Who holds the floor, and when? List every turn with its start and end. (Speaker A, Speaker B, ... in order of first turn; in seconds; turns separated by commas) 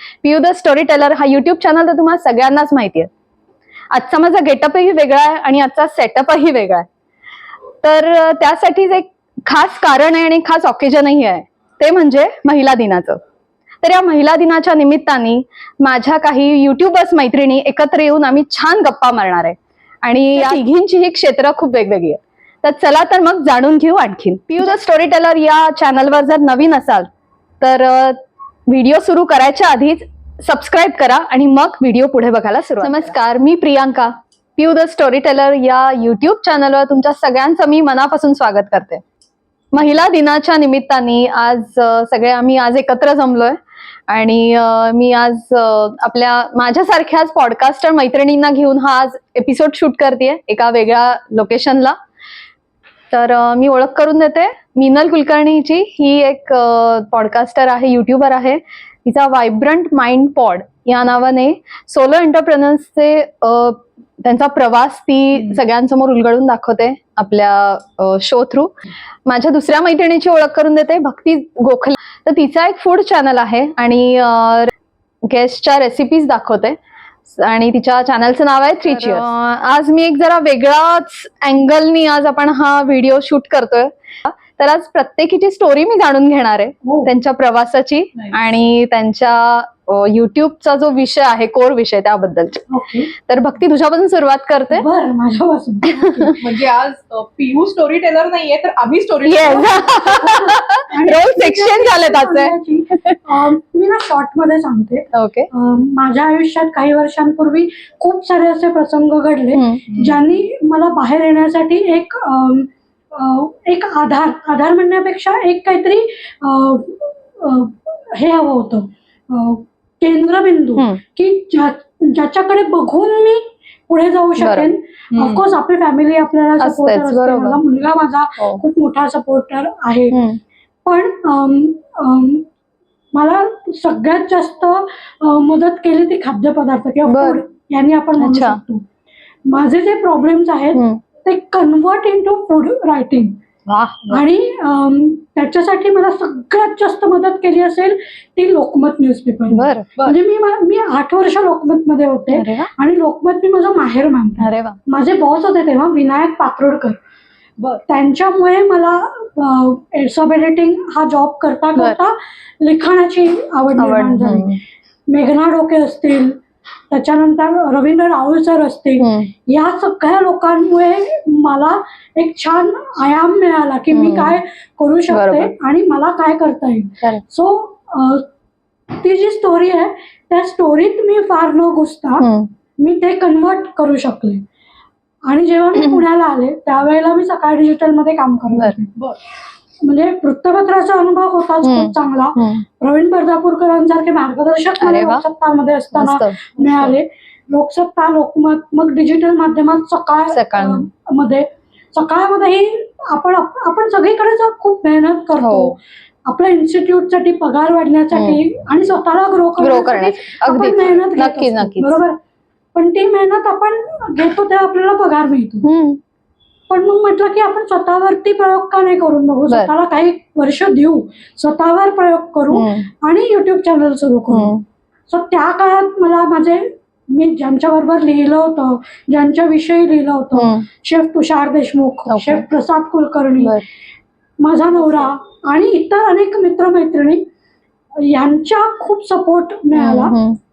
Speaker A: 0.2-3.1, Speaker A: 3.9-6.8, Speaker A: 7.8-13.2, Speaker A: 13.8-27.1, Speaker A: 27.6-39.0, Speaker A: 39.7-43.5, Speaker A: 44.1-51.9, Speaker A: 53.1-68.7, Speaker B: 65.3-65.6, Speaker A: 69.2-74.7, Speaker A: 75.3-76.8, Speaker A: 77.3-92.6, Speaker B: 78.8-79.2, Speaker C: 86.8-87.1, Speaker B: 88.1-88.5, Speaker C: 92.7-93.1, Speaker A: 93.2-94.8, Speaker C: 94.7-96.4, Speaker A: 96.0-96.3, Speaker B: 96.4-100.3, Speaker A: 99.2-103.2, Speaker C: 100.2-130.2, Speaker A: 105.1-105.5, Speaker A: 109.5-109.8, Speaker B: 109.9-110.2, Speaker A: 124.4-124.7, Speaker B: 125.1-125.4, Speaker A: 126.6-127.6, Speaker A: 130.1-130.4, Speaker C: 130.8-132.5, Speaker C: 133.1-138.8, Speaker A: 137.1-137.4, Speaker A: 138.2-138.6, Speaker C: 139.5-143.4, Speaker A: 140.7-141.0, Speaker A: 143.7-144.2, Speaker C: 144.1-157.0, Speaker A: 149.5-149.9, Speaker A: 152.3-152.7, Speaker A: 154.4-154.8, Speaker C: 157.9-164.5, Speaker A: 163.8-164.6, Speaker C: 165.1-166.4, Speaker C: 166.9-178.2, Speaker A: 169.0-169.3, Speaker A: 173.9-174.4, Speaker A: 175.1-175.5, Speaker C: 178.9-182.3, Speaker A: 182.2-182.5, Speaker C: 182.8-184.4, Speaker C: 185.2-188.9, Speaker C: 189.8-212.2, Speaker A: 191.6-192.6, Speaker A: 194.8-195.2, Speaker A: 195.9-196.9, Speaker A: 200.3-200.8, Speaker A: 205.4-205.7, Speaker A: 208.1-208.4, Speaker A: 209.6-212.0, Speaker C: 212.7-215.7, Speaker A: 215.6-216.0, Speaker C: 216.7-224.5, Speaker A: 222.5-222.9, Speaker A: 224.3-224.6, Speaker C: 225.1-233.6, Speaker A: 230.3-230.7, Speaker A: 232.1-232.4, Speaker C: 234.4-237.3, Speaker B: 234.7-235.1, Speaker C: 238.0-240.2, Speaker A: 239.7-240.4